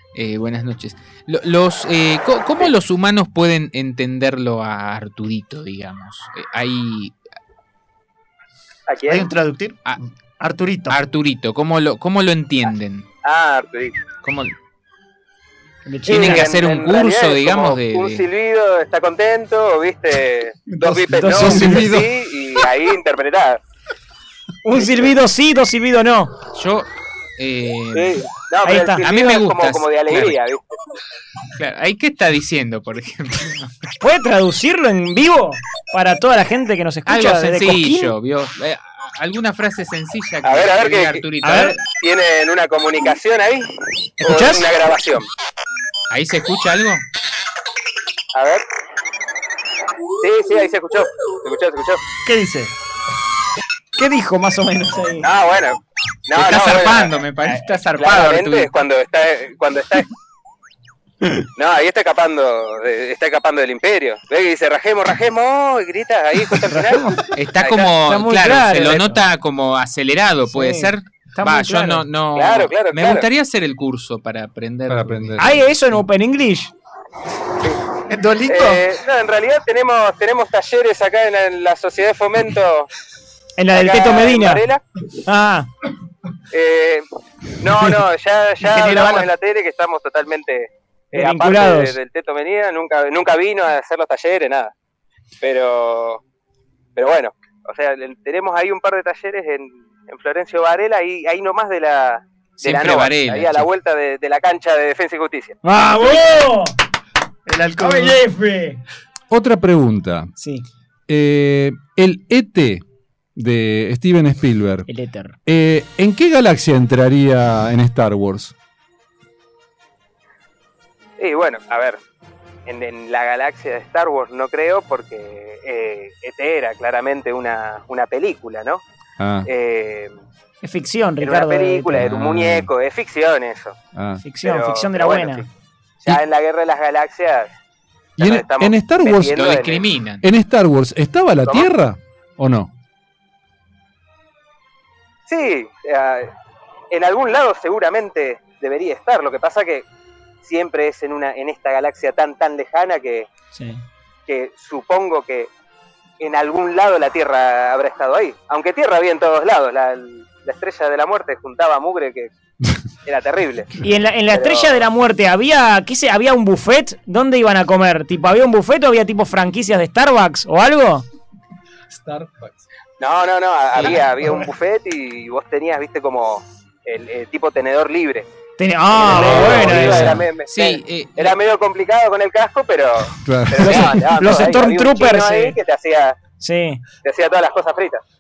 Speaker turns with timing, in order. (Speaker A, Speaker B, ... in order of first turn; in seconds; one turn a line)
Speaker A: 0.1-7.2
Speaker B: 8.9-9.3
Speaker C: 9.1-11.0
Speaker A: 10.9-13.1
Speaker B: 13.2-14.0
Speaker A: 14.2-14.5
Speaker D: 15.9-16.5
Speaker B: 16.1-23.6
Speaker A: 16.1-18.3
Speaker E: 20.8-22.2
Speaker D: 21.1-22.0
Speaker D: 24.6-26.4
Speaker A: 26.5-28.3
Speaker B: 27.9-30.8
Speaker D: 28.7-29.0
Speaker A: 29.0-30.4
Speaker A: 31.6-33.7
Speaker D: 34.0-38.1
Speaker A: 37.1-41.9
Speaker B: 40.4-41.3
Speaker D: 41.4-41.8
Speaker B: 41.9-43.7
Speaker D: 44.2-44.7
Speaker B: 44.2-45.3
Speaker A: 46.1-47.0
Speaker B: 48.3-48.6
Speaker B: 50.2-52.0
Speaker C: 52.2-52.7
Speaker D: 54.0-55.3
Speaker B: 55.2-60.1
Speaker A: 56.3-58.7
Speaker B: 61.6-67.9
Speaker D: 66.8-67.3
Speaker A: 67.3-75.4
Speaker D: 68.1-69.2
Speaker D: 70.5-72.0
Speaker B: 72.3-73.3
Speaker E: 74.9-75.6
Speaker D: 75.4-76.7
Speaker C: 78.1-78.9
Speaker B: 78.5-82.9
Speaker D: 83.6-84.6
Speaker B: 83.7-84.8
Speaker D: 85.3-85.7
Speaker B: 86.5-87.0
Speaker B: 87.6-94.7
Speaker C: 88.6-89.3
Speaker D: 91.1-92.0
Speaker B: 95.4-96.2
Speaker B: 97.0-105.5
Speaker A: 102.6-103.7
Speaker D: 105.6-106.8
Speaker C: 107.5-108.2
Speaker D: 107.8-108.8
Speaker E: 109.3-110.3
Speaker D: 110.4-110.7
Speaker E: 111.1-112.8
Speaker E: 113.3-114.9
Speaker D: 114.9-115.4
Speaker E: 115.5-118.5
Speaker B: 121.2-122.0
Speaker B: 122.7-128.8
Speaker E: 129.2-129.5
Speaker B: 129.4-130.1
Speaker D: 130.6-132.1
Speaker B: 131.2-133.8
Speaker E: 131.9-132.7
Speaker E: 133.9-134.2
Speaker D: 134.2-135.5
Speaker B: 134.4-135.5
Speaker B: 136.0-137.5
Speaker B: 138.2-139.9
Speaker E: 138.2-139.5
Speaker A: 139.3-140.2
Speaker E: 140.2-142.7
Speaker B: 145.3-146.3
Speaker B: 146.9-149.8
Speaker B: 150.4-153.3
Speaker D: 153.6-153.8
Speaker B: 154.3-155.5
Speaker B: 156.2-162.3
Speaker B: 163.1-163.7
Speaker D: 163.8-171.1
Speaker B: 164.3-164.8
Speaker E: 171.9-172.6
Speaker B: 173.0-178.3
Speaker D: 178.6-180.2
Speaker B: 179.0-186.2
Speaker E: 179.0-180.3
Speaker A: 180.5-181.4
Speaker E: 183.2-184.0
Speaker D: 183.6-185.6
Speaker D: 186.4-186.8
Speaker B: 187.0-188.0